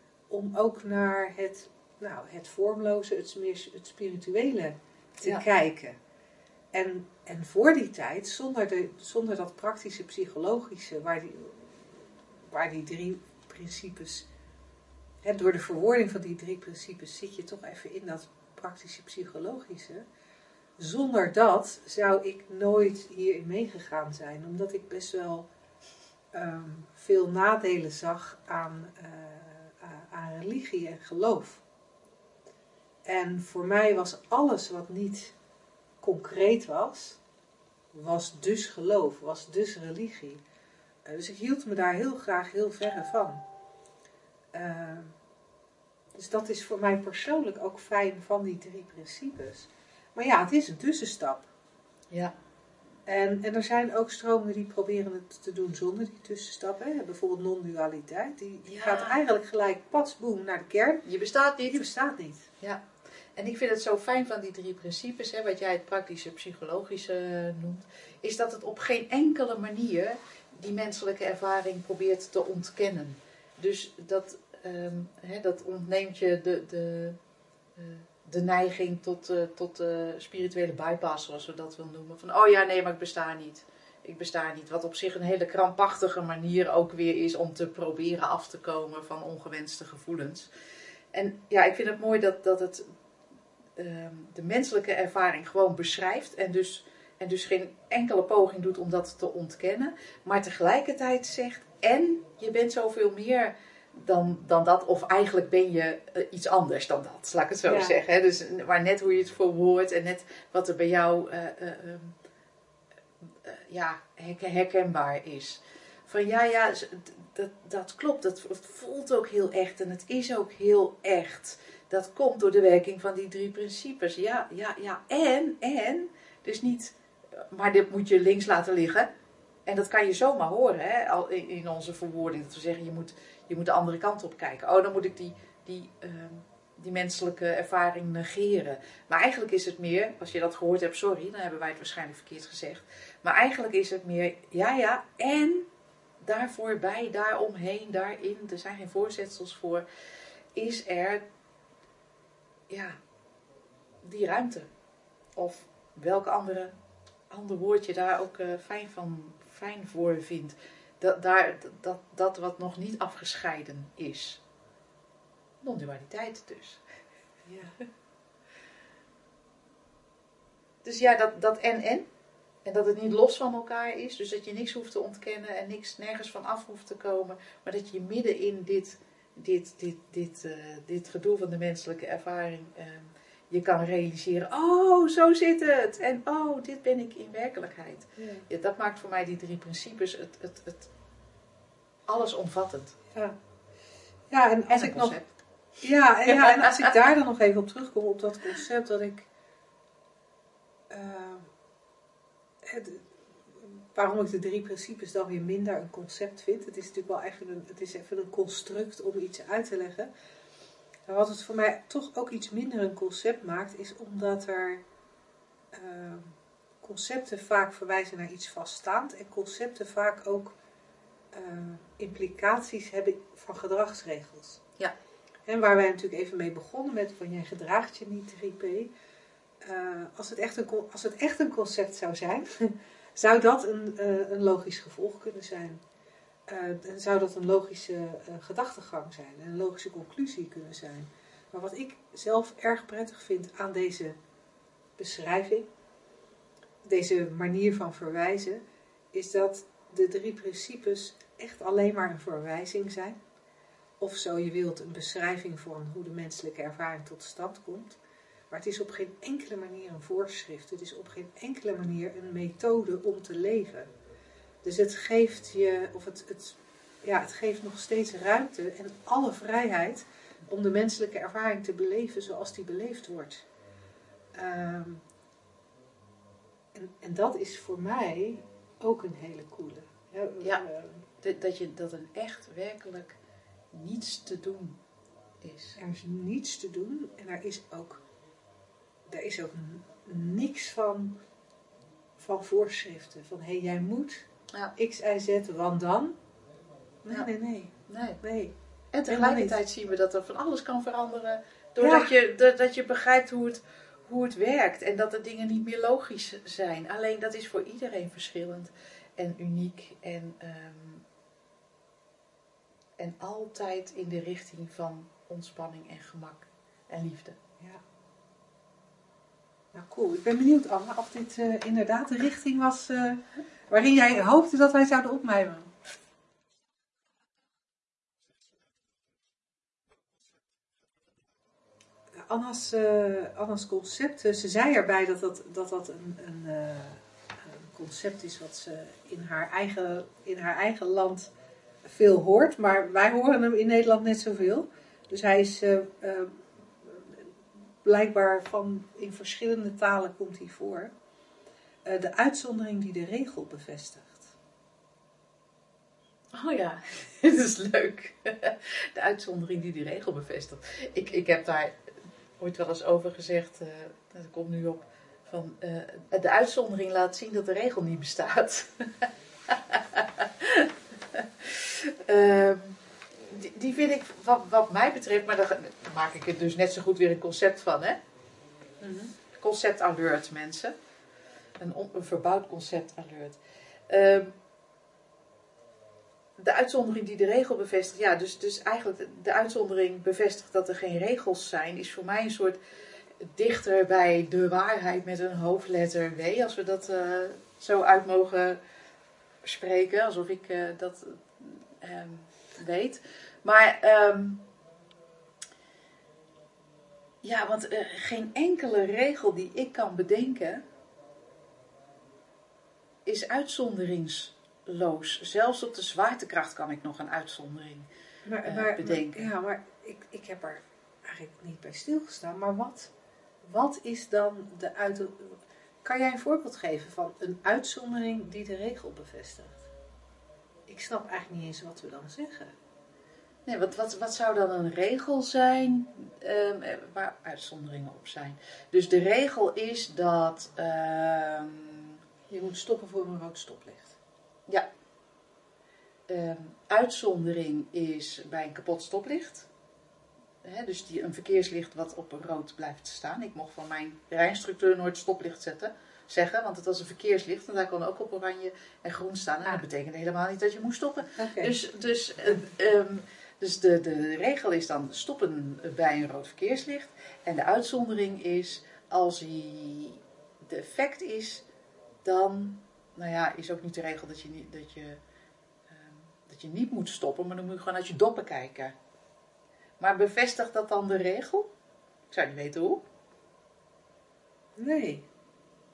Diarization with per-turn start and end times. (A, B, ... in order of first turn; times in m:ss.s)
0:00.3-0:06.0 A
0:06.7-0:14.3 A
0:15.2-0:20.0 A
0:20.8-0:25.5 A
0:26.3-0:31.6 A
0:33.0-0:35.4 A
0:36.0-0:37.2 A
0:37.9-0:40.4 A
0:41.0-0:43.4 A
0:44.5-0:45.2 A
0:46.2-0:51.5 A
0:53.1-1:01.0 A
0:58.7-0:59.2 B
1:01.0-1:01.9 B
1:01.7-1:02.5 A
1:03.4-1:17.2 B
1:17.8-1:30.5 B
1:31.1-1:32.9 B
1:33.8-1:52.2 B
1:47.7-1:48.0 A
1:53.2-2:09.1 B
2:09.7-2:25.7 B
2:26.2-2:29.8 B
2:30.6-2:31.2 B
2:32.7-2:33.0 B
2:34.0-2:34.7 B
2:35.4-2:36.7 B
2:37.3-2:44.4 B
2:45.6-2:46.8 B
2:47.5-2:47.8 A
2:50.8-2:52.1 B
2:52.6-3:10.9 B
3:08.2-3:08.5 A
3:12.1-3:13.0 B
3:14.3-3:15.2 A
3:14.7-3:15.3 B
3:15.8-3:19.3 A
3:16.2-3:17.0 B
3:20.9-3:21.5 A
3:22.6-3:23.1 A
3:23.6-3:30.1 A
3:31.1-3:34.8 A
3:35.7-3:40.6 A
3:41.3-3:44.6 A
3:45.5-3:48.9 A
3:49.6-3:55.8 A
3:56.5-4:04.2 A
4:05.0-4:05.7 A
4:06.8-4:08.6 A
4:09.1-4:13.2 A
4:14.0-4:18.0 A
4:18.5-4:23.9 A
4:24.6-4:33.5 A
4:34.4-4:35.0 A
4:36.7-4:41.0 A
4:41.2-4:43.2 B
4:43.7-4:44.8 B
4:45.4-4:45.8 B
4:45.8-4:48.0 A
4:49.1-4:51.2 A
4:52.2-4:56.2 A
4:57.0-4:58.5 A
4:57.9-4:58.2 B
4:58.9-5:11.0 B
4:59.1-4:59.6 A
5:01.8-5:02.1 A
5:13.0-5:17.4 B
5:19.7-5:25.7 A
5:32.2-5:41.3 A
5:41.8-5:47.3 A
5:47.8-5:50.9 A
5:51.8-5:54.3 A
5:56.3-6:18.0 B
6:18.8-6:19.1 A
6:19.4-6:20.8 B
6:21.6-6:23.4 B
6:23.9-6:24.3 B
6:26.4-6:32.6 B
6:33.2-6:38.6 B
6:39.4-6:44.4 B
6:47.2-6:50.6 B
6:53.0-6:57.9 B
6:58.3-7:02.9 A
6:58.4-6:59.3 B
7:03.4-7:09.7 A
7:10.7-7:12.5 A
7:13.5-7:22.0 B
7:22.3-7:24.0 A
7:26.1-7:29.5 B
7:30.4-7:51.5 B
7:41.2-7:41.6 A
7:52.0-7:55.0 B
7:55.7-7:58.8 B
7:59.8-8:01.5 B
8:02.1-8:02.8 B
8:04.6-8:05.0 A